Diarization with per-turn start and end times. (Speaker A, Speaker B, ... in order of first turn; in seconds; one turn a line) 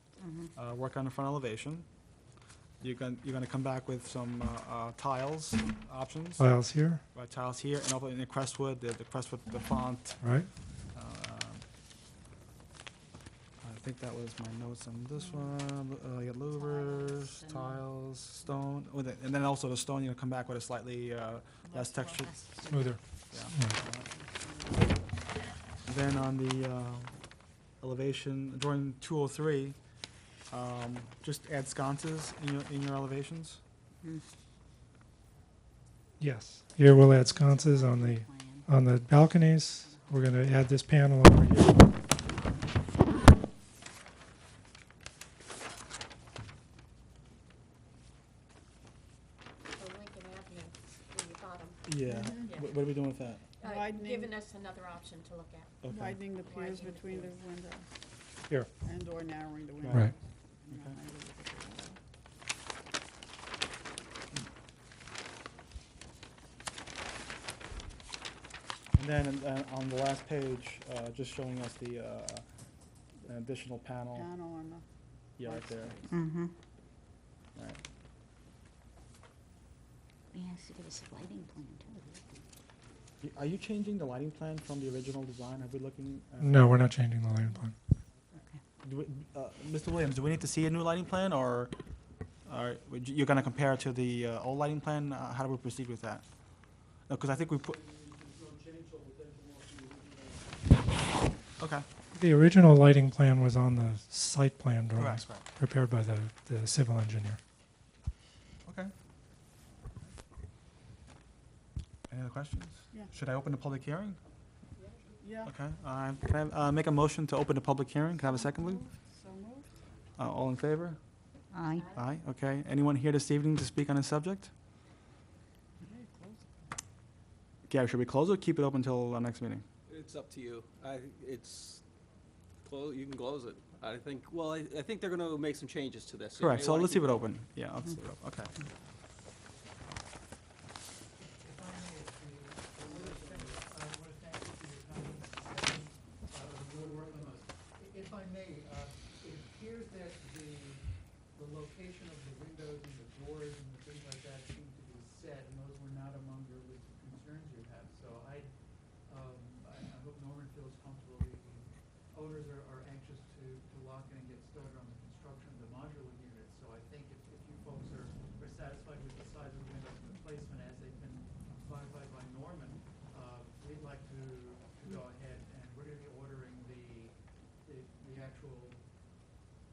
Speaker A: 0.2-0.5
Speaker B: 0.5-1.9
Speaker B: 2.8-6.5
Speaker C: 6.4-7.0
Speaker B: 7.1-10.3
Speaker C: 10.2-10.5
Speaker B: 10.9-11.6
Speaker B: 13.6-22.7
Speaker A: 16.5-17.8
Speaker A: 21.6-22.9
Speaker C: 22.6-23.8
Speaker B: 23.3-24.0
Speaker A: 24.1-24.7
Speaker B: 25.8-27.1
Speaker B: 27.8-29.8
Speaker B: 30.5-33.6
Speaker C: 36.2-41.9
Speaker A: 36.9-38.7
Speaker A: 39.8-40.1
Speaker D: 49.7-51.8
Speaker B: 51.9-53.4
Speaker E: 52.1-52.5
Speaker D: 52.4-52.8
Speaker D: 53.6-55.7
Speaker E: 53.6-54.3
Speaker B: 55.8-56.2
Speaker E: 55.9-58.0
Speaker D: 56.3-57.3
Speaker E: 58.8-62.0
Speaker B: 59.8-60.1
Speaker B: 68.9-72.4
Speaker B: 73.2-74.3
Speaker E: 74.1-74.8
Speaker B: 75.4-76.0
Speaker E: 75.4-76.2
Speaker A: 76.1-76.5
Speaker B: 77.5-77.8
Speaker A: 80.3-82.2
Speaker B: 83.2-86.9
Speaker C: 86.4-87.7
Speaker A: 88.3-88.6
Speaker B: 88.8-91.7
Speaker B: 92.5-96.2
Speaker B: 97.1-97.8
Speaker F: 97.8-100.3
Speaker B: 101.6-101.8
Speaker C: 102.1-107.4
Speaker B: 105.0-105.5
Speaker B: 108.6-108.9
Speaker B: 112.1-114.2
Speaker E: 115.2-115.5
Speaker B: 115.5-118.8
Speaker E: 118.2-119.7
Speaker B: 120.2-121.0
Speaker A: 121.5-121.9
Speaker D: 121.8-122.0
Speaker B: 121.9-124.5
Speaker E: 125.8-126.4
Speaker B: 127.7-129.6
Speaker F: 129.9-131.8
Speaker F: 132.6-137.3
Speaker B: 136.4-138.5
Speaker G: 141.2-158.5
Speaker F: 142.8-143.6
Speaker G: 159.1-177.1
Speaker G: 177.6-178.8